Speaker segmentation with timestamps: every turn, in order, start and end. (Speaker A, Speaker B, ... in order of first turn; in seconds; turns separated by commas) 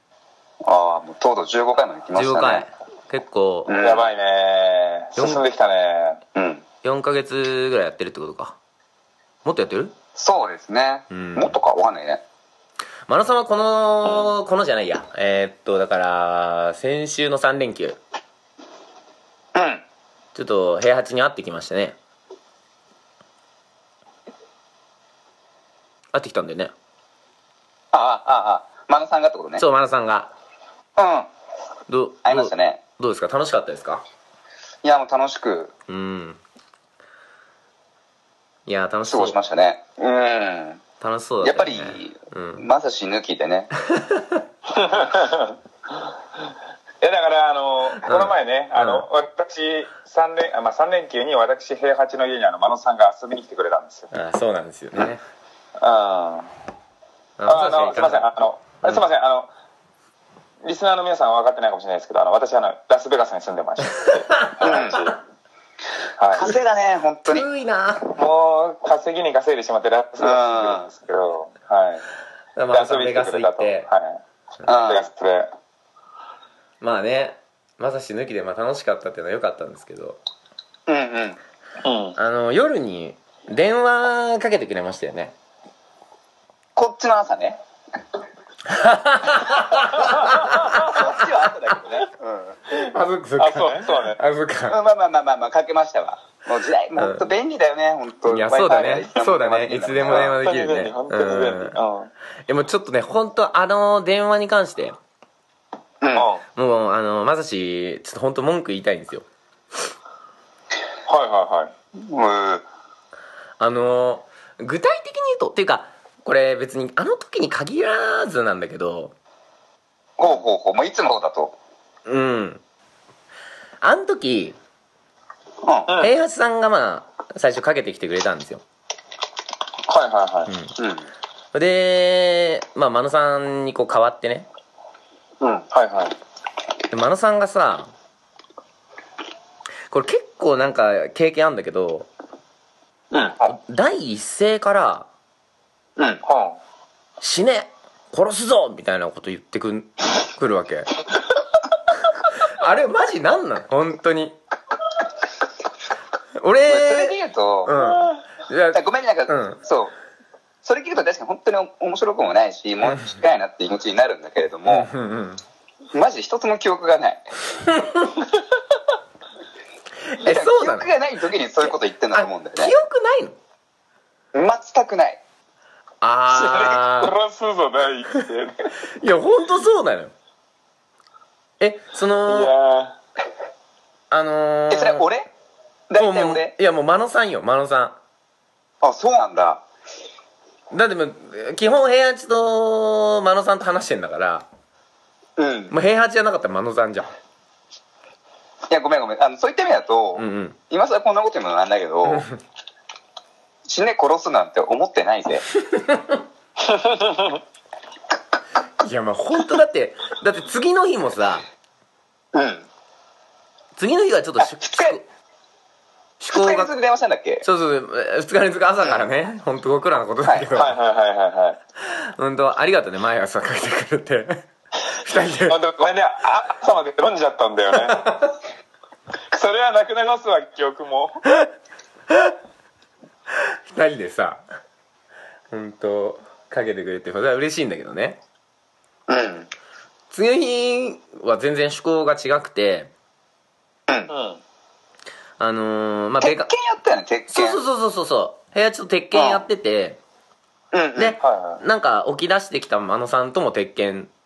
Speaker A: 0.6-2.6, Speaker B: 2.1-3.8, Speaker A: 3.7-4.1, Speaker C: 3.8-6.2, Speaker A: 6.3-6.6, Speaker B: 6.8-8.6, Speaker B: 9.4-9.9, Speaker A: 10.2-12.2, Speaker B: 11.1-11.5, Speaker B: 13.1-18.0, Speaker A: 19.5-19.8, Speaker B: 20.3-22.0, Speaker B: 26.1-26.7, Speaker A: 27.9-29.6, Speaker B: 29.6-30.3, Speaker A: 31.0-31.3, Speaker B: 31.9-34.0, Speaker A: 32.2-32.8, Speaker A: 34.8-35.7, Speaker B: 35.9-36.4, Speaker B: 38.6-39.4, Speaker A: 39.1-40.8, Speaker B: 41.0-42.7, Speaker A: 41.4-43.7, Speaker B: 43.8-44.4, Speaker C: 44.7-45.5, Speaker C: 47.0-54.1, Speaker B: 48.0-49.1, Speaker B: 54.1-55.2, Speaker C: 55.8-56.5, Speaker B: 57.4-58.3, Speaker C: 57.5-59.5, Speaker C: 60.6-65.2, Speaker B: 64.0-64.8, Speaker A: 64.6-65.1, Speaker C: 66.2-66.5, Speaker A: 66.3-67.5, Speaker B: 67.2-68.2, Speaker C: 68.1-72.0, Speaker A: 70.2-70.8, Speaker B: 72.5-73.9, Speaker C: 72.7-74.2, Speaker A: 74.7-75.1, Speaker C: 74.8-75.5, Speaker B: 76.8-80.2, Speaker A: 80.9-81.4, Speaker C: 81.8-82.2, Speaker B: 82.2-85.3, Speaker A: 86.8-87.6, Speaker B: 88.7-91.2, Speaker A: 90.3-92.6, Speaker B: 92.7-94.8, Speaker C: 93.4-94.2, Speaker A: 94.7-100.3, Speaker B: 97.0-97.3, Speaker B: 98.3-101.8, Speaker C: 100.1-102.1, Speaker B: 102.5-105.0, Speaker A: 106.0-106.3, Speaker C: 106.1-106.4, Speaker B: 106.5-109.2, Speaker C: 111.1-111.7, Speaker A: 112.0-112.6, Speaker B: 113.6-119.1, Speaker A: 120.2-121.5, Speaker B: 122.0-122.6, Speaker B: 123.8-124.6, Speaker A: 125.6-125.9, Speaker C: 125.9-126.1, Speaker B: 126.0-128.6, Speaker C: 129.9-130.5, Speaker B: 130.5-130.7, Speaker A: 130.8-131.1, Speaker B: 131.5-134.5, Speaker A: 135.4-135.7, Speaker C: 135.7-136.2, Speaker B: 136.9-137.9, Speaker B: 139.9-142.1, Speaker A: 143.1-143.4, Speaker B: 143.4-145.1, Speaker A: 146.0-146.2, Speaker C: 146.2-146.6, Speaker B: 147.2-151.0, Speaker B: 152.3-154.4, Speaker B: 156.4-159.6, Speaker A: 156.7-157.7, Speaker C: 157.7-158.1, Speaker A: 158.7-159.9, Speaker A: 160.6-164.9, Speaker B: 164.7-165.4, Speaker A: 165.9-167.3, Speaker B: 167.7-168.0, Speaker B: 170.0-170.9, Speaker A: 170.2-172.7, Speaker B: 171.6-173.3, Speaker A: 174.3-175.2, Speaker B: 176.0-177.1, Speaker C: 176.3-178.7, Speaker B: 178.9-180.1, Speaker B: 181.6-182.5, Speaker C: 182.2-182.9, Speaker B: 184.1-185.1, Speaker A: 184.7-185.3, Speaker A: 185.9-186.5, Speaker B: 186.0-187.9, Speaker A: 188.8-189.6, Speaker B: 190.7-194.4, Speaker A: 195.4-195.7, Speaker B: 195.7-197.1, Speaker A: 198.7-202.3, Speaker B: 200.1-200.6, Speaker A: 203.7-205.5, Speaker B: 205.7-206.2, Speaker C: 206.7-207.3, Speaker B: 208.8-211.4, Speaker A: 212.3-212.7, Speaker B: 213.8-215.0, Speaker A: 214.4-215.0, Speaker B: 216.2-216.7, Speaker A: 216.3-217.4, Speaker B: 217.4-220.8, Speaker C: 220.5-221.6, Speaker B: 221.8-225.6, Speaker C: 225.4-228.1, Speaker B: 228.0-228.3, Speaker C: 229.3-231.2, Speaker B: 233.3-234.4, Speaker B: 235.5-238.2, Speaker A: 239.1-239.5, Speaker B: 240.1-242.9, Speaker C: 244.1-244.4, Speaker B: 245.4-246.5, Speaker A: 246.2-247.6, Speaker B: 247.3-250.0, Speaker A: 249.1-249.4, Speaker A: 250.7-251.2, Speaker B: 250.9-254.1, Speaker C: 251.2-251.6